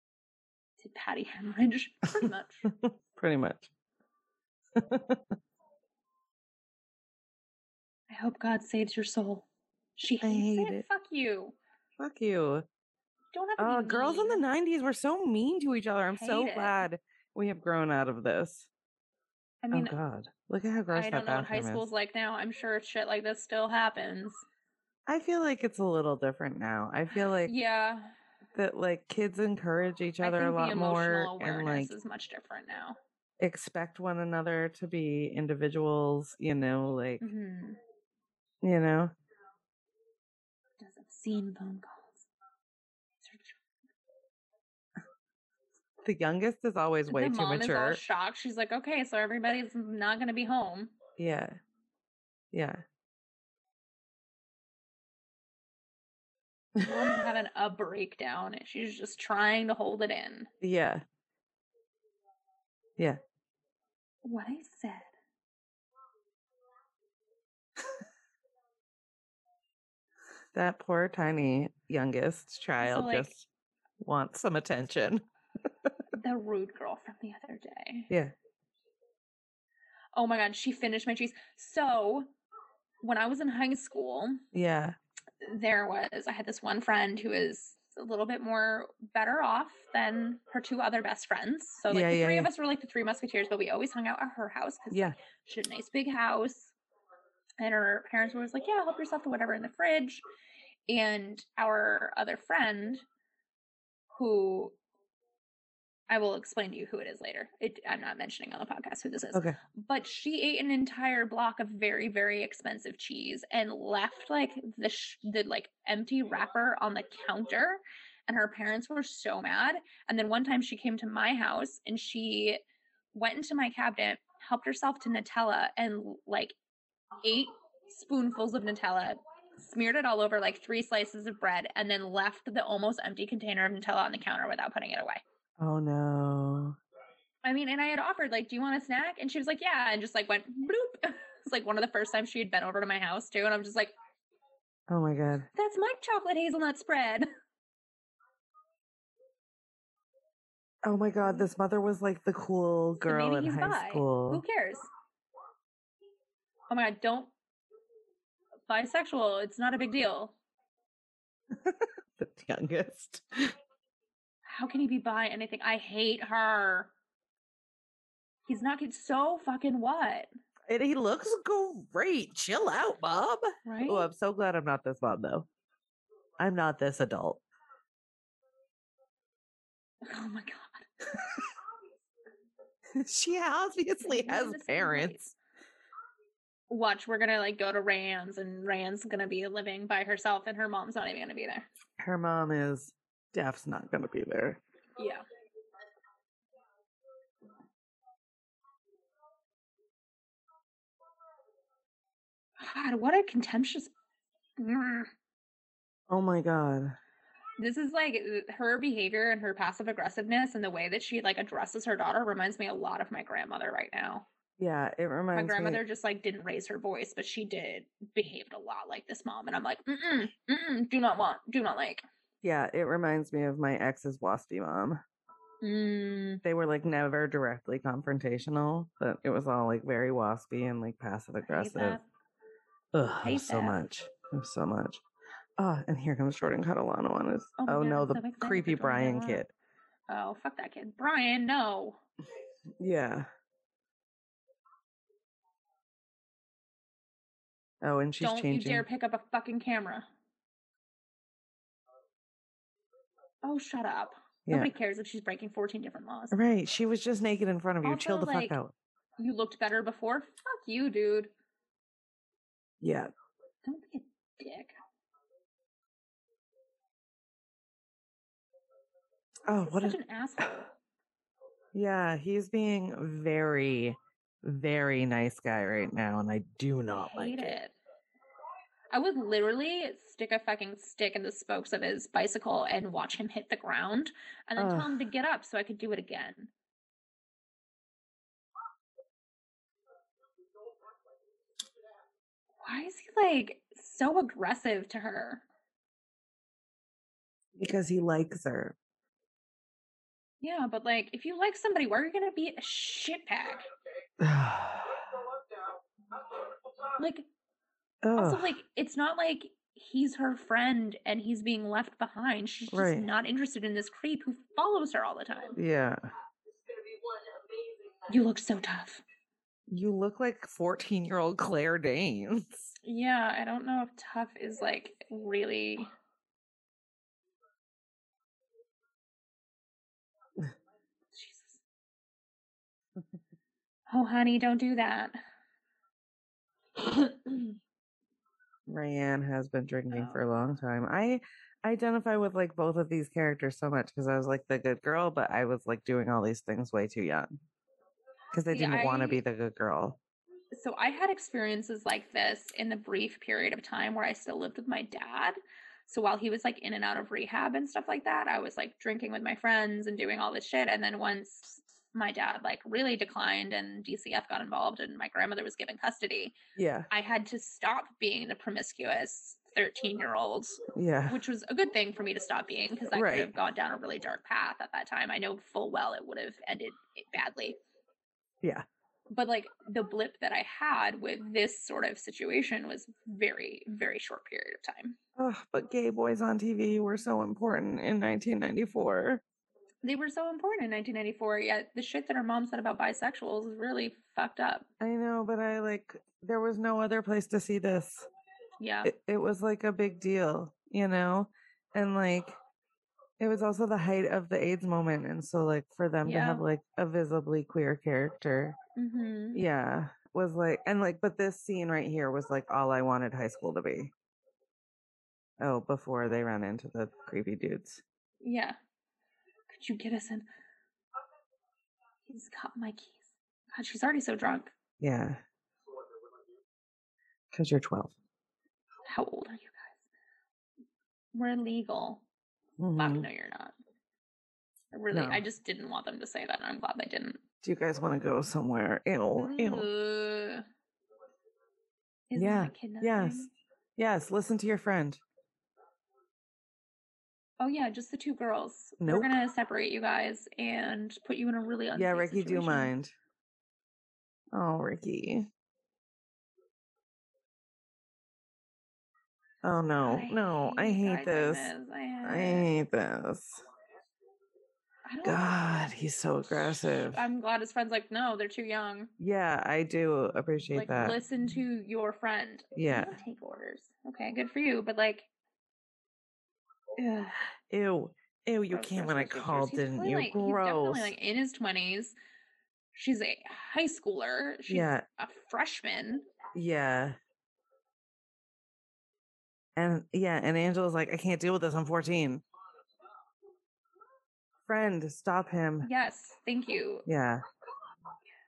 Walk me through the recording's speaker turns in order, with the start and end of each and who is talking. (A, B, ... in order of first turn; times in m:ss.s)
0:00.8-0:02.7 A
0:02.8-0:03.7 B
0:04.8-0:05.3 B
0:08.1-0:09.5 A
0:10.0-0:11.6 A
0:10.2-0:10.8 B
0:12.0-0:12.7 B
0:13.3-0:14.4 A
0:13.6-0:18.7 B
0:16.1-0:16.8 A
0:19.6-0:20.0 A
0:19.7-0:21.9 B
0:20.9-0:24.4 A
0:25.1-0:27.5 B
0:27.4-0:28.1 A
0:28.6-0:31.9 B
0:30.2-0:33.0 A
0:33.4-0:37.2 B
0:37.2-0:37.8 A
0:38.6-0:39.1 B
0:40.8-0:42.3 A
0:43.2-0:43.6 A
0:46.0-0:48.0 B
0:47.1-0:50.9 A
0:51.2-0:51.6 B
0:52.5-0:52.8 B
0:56.8-1:00.5 A
1:00.6-1:01.0 B
1:04.2-1:05.1 A
1:10.6-1:13.4 B
1:12.8-1:13.3 A
1:14.0-1:15.2 B
1:16.1-1:18.1 A
1:20.1-1:22.3 A
1:23.0-1:24.4 A
1:24.5-1:25.0 B
1:25.4-1:36.7 A
1:31.9-1:32.5 B
1:34.9-1:35.2 B
1:37.6-1:40.2 A
1:40.9-1:43.0 A
1:44.1-1:44.8 A
1:46.1-2:02.6 A
2:03.1-2:06.6 A
2:07.2-2:15.2 A
2:15.6-2:16.8 B
2:17.4-2:23.9 A
2:24.9-2:25.5 B
2:25.6-2:27.3 A
2:30.8-2:34.4 B
2:33.0-2:34.9 A
2:36.7-2:37.3 A
2:38.7-2:40.4 A
2:41.5-2:43.5 B
2:44.5-2:46.9 A
2:48.5-2:50.3 A
2:50.7-2:55.5 B
2:53.7-2:54.1 A
2:56.4-2:57.4 B
3:00.0-3:00.9 A
3:03.0-3:05.1 B
3:04.0-3:05.4 A
3:06.7-3:11.7 A
3:12.0-3:14.6 B
3:15.0-3:15.2 A
3:22.6-3:23.9 A
3:24.6-3:25.1 A
3:26.1-3:27.0 B
3:27.6-3:34.2 A
3:34.6-3:35.8 B
3:35.3-3:42.0 A
3:42.4-3:45.0 B
3:45.6-3:46.4 A
3:46.4-3:52.0 B
3:51.5-3:52.0 A
3:52.9-3:55.0 B
3:53.2-3:53.8 A
3:55.6-3:59.5 B
3:57.6-3:59.4 A
4:00.1-4:02.0 A
4:02.8-4:03.3 B
4:07.8-4:08.9 B
4:08.2-4:10.1 A
4:13.4-4:16.4 A
4:14.5-4:14.7 B
4:16.3-4:18.7 B
4:17.8-4:18.6 A
4:19.2-4:21.3 A
4:22.8-4:23.1 B
4:23.6-4:24.8 A
4:29.5-4:30.0 B
4:29.6-4:30.7 A
4:31.7-4:37.6 B
4:37.0-4:37.7 A
4:38.9-4:46.5 A
4:44.6-4:45.0 B
4:52.6-4:55.4 A
4:57.6-4:58.8 B
5:00.4-5:03.7 A
5:04.2-5:05.2 B
5:07.0-5:07.3 A
5:08.0-5:08.6 B
5:08.2-5:15.6 A
5:12.7-5:13.1 B
5:15.6-5:16.0 B
5:18.1-5:19.0 A
5:19.7-5:22.7 B
5:22.8-5:25.9 A
5:31.1-5:31.6 A
5:33.9-5:35.2 A
5:38.7-5:47.4 B
5:39.9-5:40.2 A
5:48.3-5:50.0 B
5:48.5-5:49.2 A
5:50.5-6:06.4 A
6:06.6-6:06.9 B
6:06.9-6:17.6 A
6:10.7-6:11.2 B
6:12.9-6:13.3 B
6:19.1-6:25.0 A
6:25.2-6:29.2 B
6:29.8-6:34.7 A
6:34.8-6:38.1 B
6:38.6-6:38.9 A
6:38.8-6:42.4 B
6:43.2-6:48.6 B
6:46.0-6:46.4 A
6:48.8-6:49.4 A
6:49.3-6:53.9 B
6:55.4-6:57.8 B
6:58.2-6:58.6 A
6:59.5-7:00.3 A
7:02.1-7:04.5 A
7:04.8-7:05.2 B
7:07.3-7:08.0 B
7:08.9-7:09.8 A
7:11.1-7:12.0 A
7:12.6-7:13.1 B
7:12.8-7:13.6 A
7:14.7-7:17.2 A
7:14.9-7:15.2 B
7:17.4-7:19.7 B
7:19.2-7:20.4 A
7:22.1-7:23.3 A
7:22.1-7:25.0 B
7:27.4-7:32.7 A
7:28.8-7:29.2 B
7:31.7-7:32.9 B
7:34.3-7:35.3 B
7:39.4-7:41.5 B
7:39.8-7:42.5 A
7:42.0-7:43.4 B
7:44.9-7:45.6 A
7:45.0-7:47.0 B
7:46.3-7:48.9 A
7:49.0-7:51.0 B
7:50.5-7:55.1 A
7:52.6-7:53.0 B
7:56.8-7:57.2 A
7:57.5-8:00.9 B
7:58.5-8:02.0 A
8:02.7-8:06.0 A
8:04.5-8:04.8 B
8:06.3-8:07.0 B
8:09.6-8:12.2 B
8:14.5-8:15.7 B
8:15.6-8:16.9 A
8:16.9-8:17.2 B